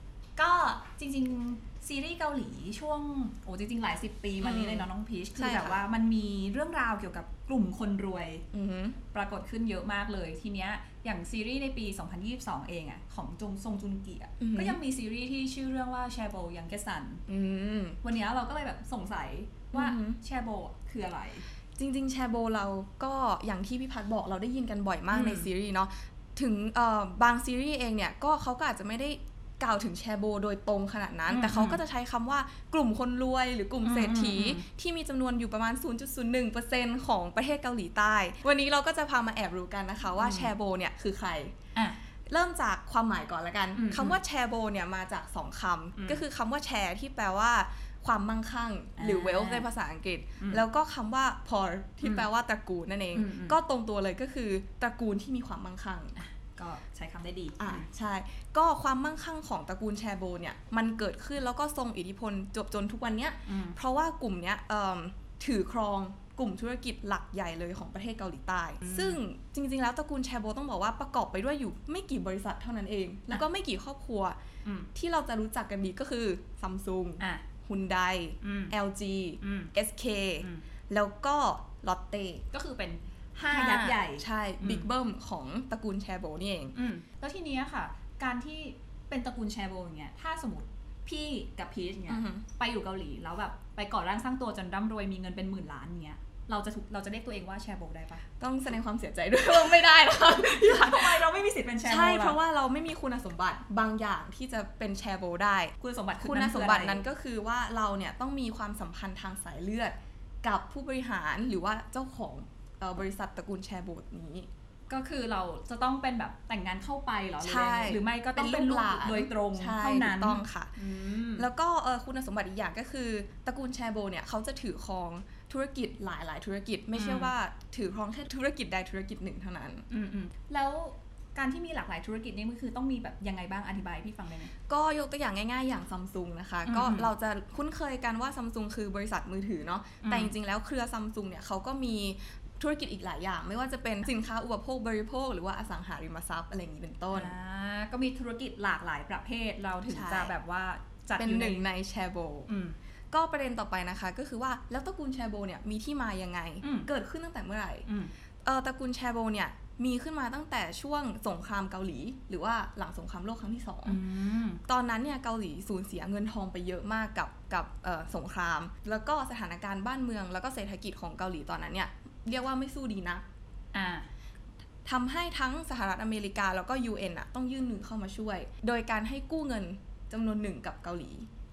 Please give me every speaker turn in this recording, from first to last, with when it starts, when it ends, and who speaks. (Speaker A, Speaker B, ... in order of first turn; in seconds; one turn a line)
Speaker A: 0.4-8.4
Speaker B: 4.4-5.8
Speaker B: 8.5-9.0
Speaker A: 9.1-17.2
Speaker B: 14.4-14.8
Speaker B: 17.3-18.0
Speaker A: 18.0-21.4
Speaker B: 19.7-20.2
Speaker B: 21.8-41.5
Speaker A: 25.1-25.5
Speaker A: 31.3-31.8
Speaker A: 33.8-34.6
Speaker A: 40.1-40.5
Speaker B: 42.3-56.1
Speaker A: 43.7-44.2
Speaker A: 46.0-46.2
Speaker A: 49.0-49.7
Speaker A: 53.1-53.6
Speaker A: 56.1-57.9
Speaker B: 57.6-74.4
Speaker A: 63.5-63.8
Speaker A: 68.8-69.2
Speaker B: 74.9-82.4
Speaker A: 77.2-77.4
Speaker A: 78.4-78.7
Speaker A: 79.4-79.7
Speaker A: 82.5-84.9
Speaker B: 83.5-86.7
Speaker A: 86.7-98.2
Speaker B: 92.1-92.4
Speaker B: 98.4-101.3
Speaker A: 99.5-102.4
Speaker B: 101.8-114.5
Speaker A: 105.8-107.0
Speaker A: 114.9-121.5
Speaker B: 117.4-120.7
Speaker B: 121.3-129.9
Speaker A: 126.9-127.3
Speaker A: 129.9-134.5
Speaker B: 134.7-147.3
Speaker A: 136.7-137.1
Speaker A: 140.0-140.3
Speaker A: 147.1-151.7
Speaker B: 149.9-150.3
Speaker B: 151.2-152.5
Speaker A: 152.5-152.8
Speaker B: 153.1-157.9
Speaker A: 156.6-156.9
Speaker A: 157.8-158.1
Speaker B: 158.4-164.0
Speaker A: 163.8-164.6
Speaker B: 164.7-173.2
Speaker A: 173.7-174.1
Speaker B: 174.8-181.3